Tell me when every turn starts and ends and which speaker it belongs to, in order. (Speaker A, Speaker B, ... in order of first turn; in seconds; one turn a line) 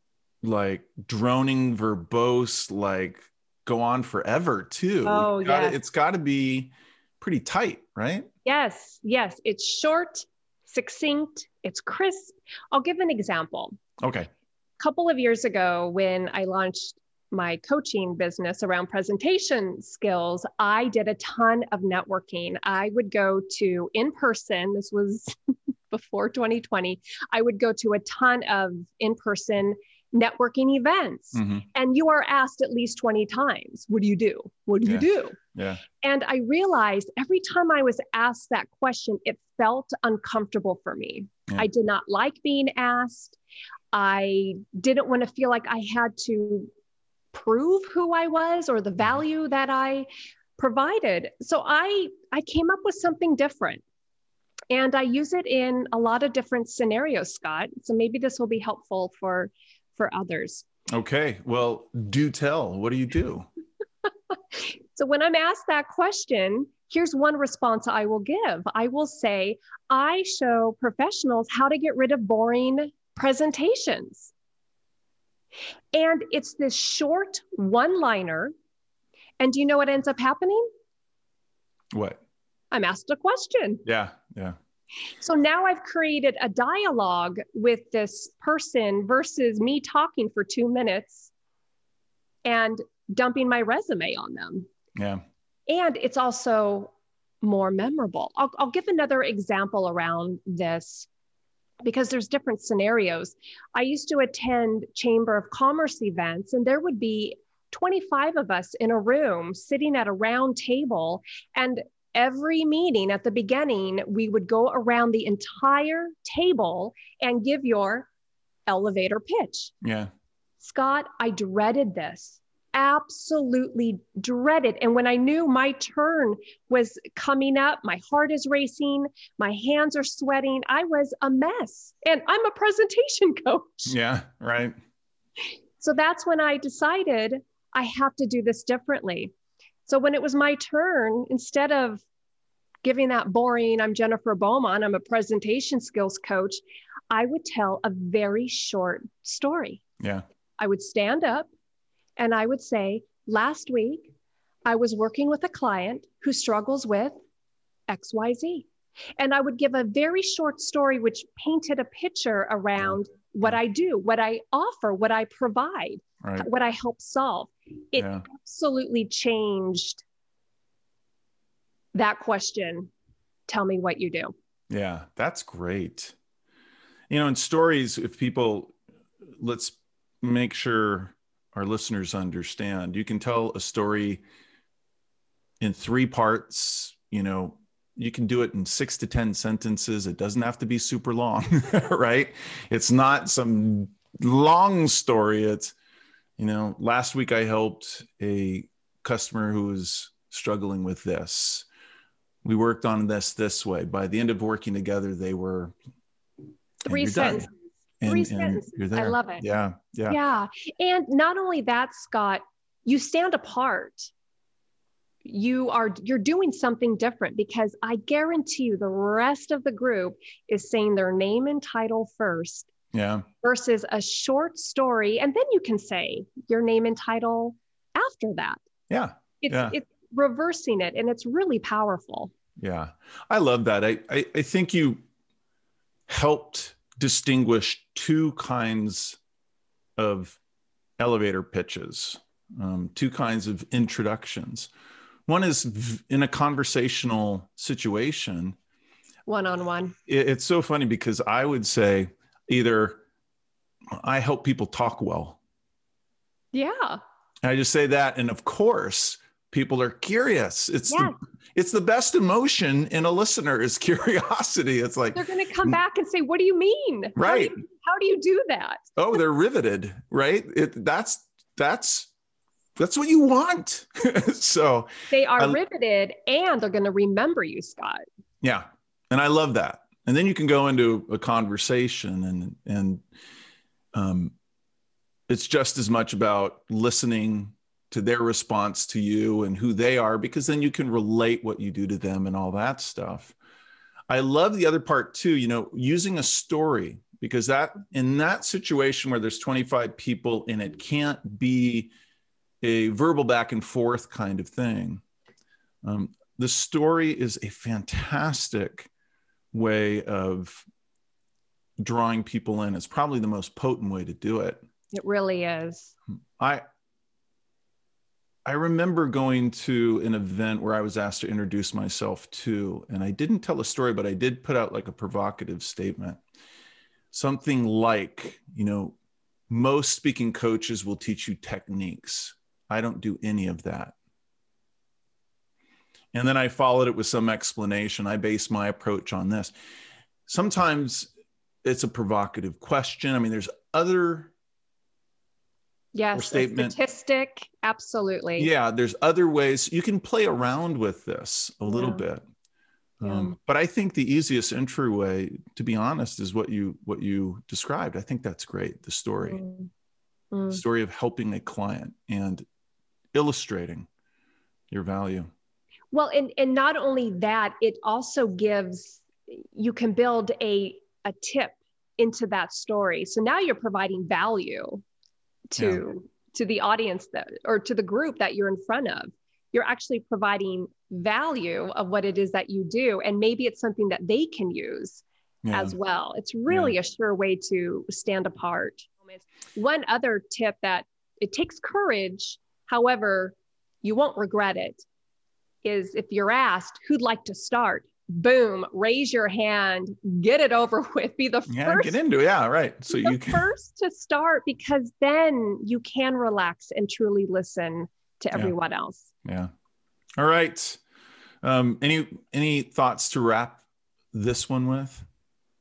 Speaker A: 0.4-8.3
Speaker B: 5.0-5.8
Speaker B: 8.4-13.8
Speaker A: 14.0-14.3
Speaker B: 14.8-25.3
Speaker B: 25.9-35.4
Speaker A: 31.3-31.6
Speaker A: 34.8-35.8
Speaker B: 36.0-43.4
Speaker B: 43.9-46.7
Speaker B: 47.3-53.8
Speaker B: 54.7-60.6
Speaker A: 60.9-63.5
Speaker B: 64.5-74.3
Speaker B: 75.9-78.5
Speaker B: 79.4-80.6
Speaker A: 81.9-82.2
Speaker B: 82.7-83.8
Speaker A: 83.8-84.5
Speaker B: 85.2-91.3
Speaker B: 92.4-94.7
Speaker A: 95.0-95.2
Speaker B: 95.7-101.1
Speaker B: 101.8-118.1
Speaker B: 118.7-119.7
Speaker A: 119.8-120.1
Speaker B: 120.6-133.9
Speaker A: 133.8-134.8
Speaker B: 135.8-139.3
Speaker B: 139.8-142.0
Speaker B: 142.8-149.8
Speaker B: 150.6-151.5
Speaker B: 152.2-154.1
Speaker B: 154.7-157.2
Speaker B: 157.9-158.7
Speaker B: 159.2-170.0
Speaker A: 162.8-163.5
Speaker A: 166.2-166.5
Speaker A: 167.9-168.2
Speaker B: 171.9-172.9
Speaker B: 173.5-174.3
Speaker A: 174.7-176.2
Speaker A: 177.1-178.8
Speaker A: 179.4-184.2
Speaker A: 185.6-195.7
Speaker A: 196.4-201.7
Speaker A: 202.4-205.7
Speaker B: 206.8-209.4
Speaker A: 206.8-207.5
Speaker A: 208.0-210.2
Speaker B: 210.1-214.1
Speaker B: 215.2-222.7
Speaker A: 222.9-223.2
Speaker B: 223.4-228.6
Speaker A: 228.9-229.8
Speaker B: 229.4-232.3
Speaker A: 232.6-235.0
Speaker A: 236.1-239.2
Speaker A: 240.0-240.4
Speaker A: 241.0-244.7
Speaker A: 245.3-248.6
Speaker B: 249.3-249.9
Speaker A: 250.1-253.0
Speaker A: 254.0-255.4
Speaker B: 256.5-257.0
Speaker A: 257.4-265.8
Speaker B: 260.9-261.1
Speaker B: 265.1-268.8
Speaker A: 267.1-267.6
Speaker A: 269.0-272.1
Speaker A: 272.8-275.6
Speaker B: 275.1-278.0
Speaker A: 278.4-283.0
Speaker A: 283.9-284.3
Speaker A: 285.3-293.3
Speaker A: 294.1-301.9
Speaker A: 302.6-305.0
Speaker A: 305.8-308.9
Speaker A: 309.5-310.6
Speaker A: 311.8-314.6
Speaker B: 314.9-315.9
Speaker A: 318.4-326.2
Speaker A: 327.1-328.9
Speaker A: 329.5-333.9
Speaker A: 336.1-339.5
Speaker A: 340.3-341.1
Speaker A: 341.6-344.3
Speaker B: 345.9-348.5
Speaker A: 346.1-346.7
Speaker A: 348.4-352.2
Speaker B: 351.6-352.1
Speaker A: 353.0-359.4
Speaker B: 353.0-353.3
Speaker B: 359.2-359.7
Speaker B: 360.3-360.6
Speaker A: 360.5-362.4
Speaker A: 363.1-363.9
Speaker A: 364.7-365.3
Speaker B: 365.9-374.8
Speaker B: 375.5-394.8
Speaker A: 375.6-375.8
Speaker A: 385.4-385.8
Speaker A: 386.5-386.7
Speaker B: 395.6-401.9
Speaker A: 401.5-403.4
Speaker B: 402.9-409.1
Speaker A: 409.2-409.5
Speaker A: 410.2-410.8
Speaker A: 411.4-415.1